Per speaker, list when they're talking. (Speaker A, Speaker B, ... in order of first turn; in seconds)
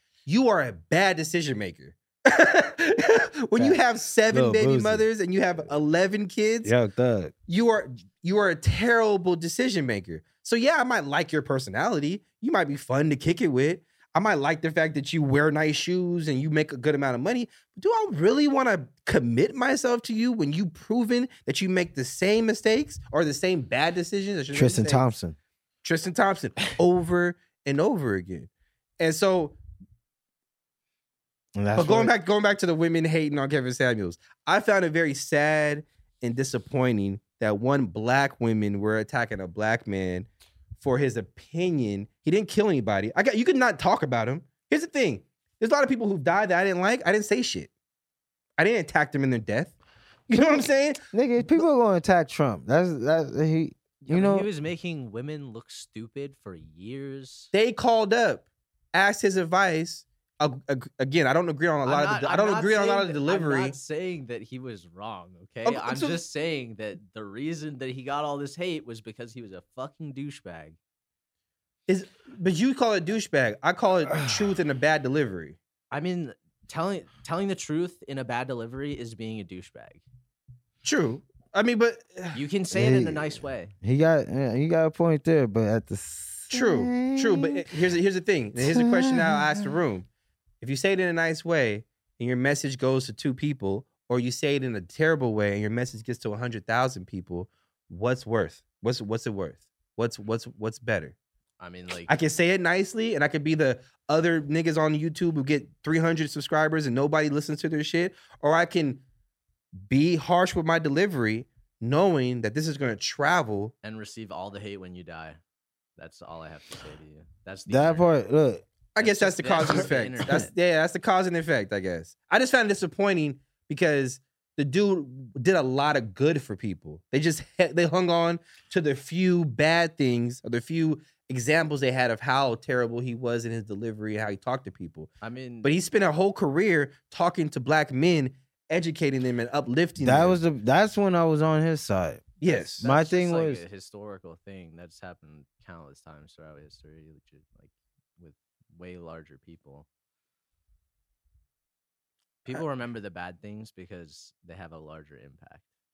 Speaker A: 0.2-6.7, 7.5-25.0, 25.8-29.6, 31.8-47.7, 48.6-49.8, 50.3-51.6, 57.5-63.8, 65.6-66.2, 71.9-75.6, 80.8-82.4, 86.5-90.0, 90.6-101.1, 102.1-109.0, 109.8-113.7, 119.0-135.1, 135.6-140.4, 142.4-142.8
Speaker B: 4.3-5.0, 6.6-7.3, 24.5-25.4, 31.6-32.1, 51.1-54.5, 82.7-87.7, 88.5-89.7, 117.7-118.6, 140.0-143.6
Speaker C: 54.0-57.5, 61.8-70.8, 75.9-80.0, 82.3-83.7, 101.6-102.1, 113.8-115.4, 116.0-118.1, 119.0-120.5, 135.2-135.7, 142.5-149.9, 152.4-155.6